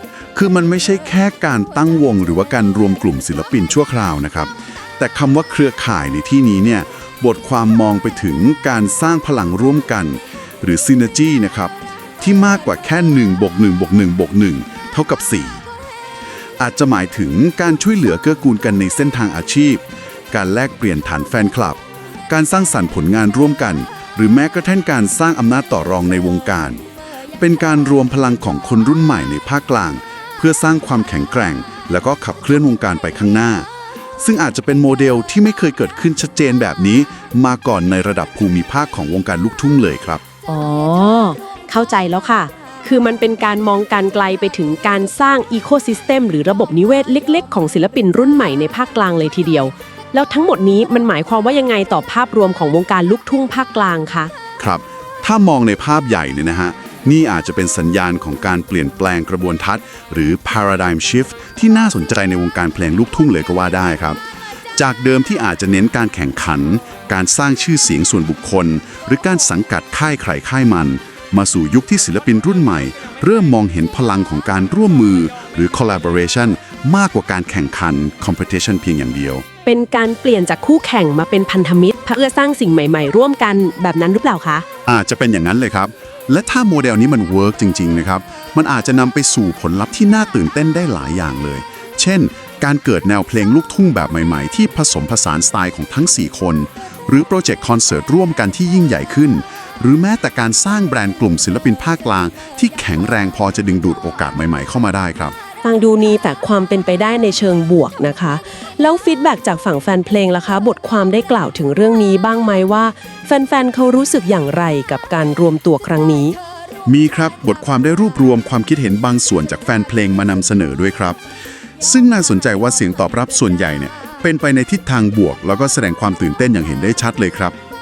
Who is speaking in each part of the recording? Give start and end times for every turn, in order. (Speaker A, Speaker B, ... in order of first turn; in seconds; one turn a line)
Speaker A: 0.3-15.6
Speaker A: 16.6-26.8
Speaker A: 27.4-33.7
Speaker A: 34.2-40.2
Speaker B: 40.5-54.3
Speaker A: 54.6-64.2
Speaker A: 64.8-79.5
Speaker B: 79.6-84.7
Speaker A: 84.9-105.4
Speaker B: 105.6-116.4
Speaker A: 116.9-121.2
Speaker A: 121.8-127.5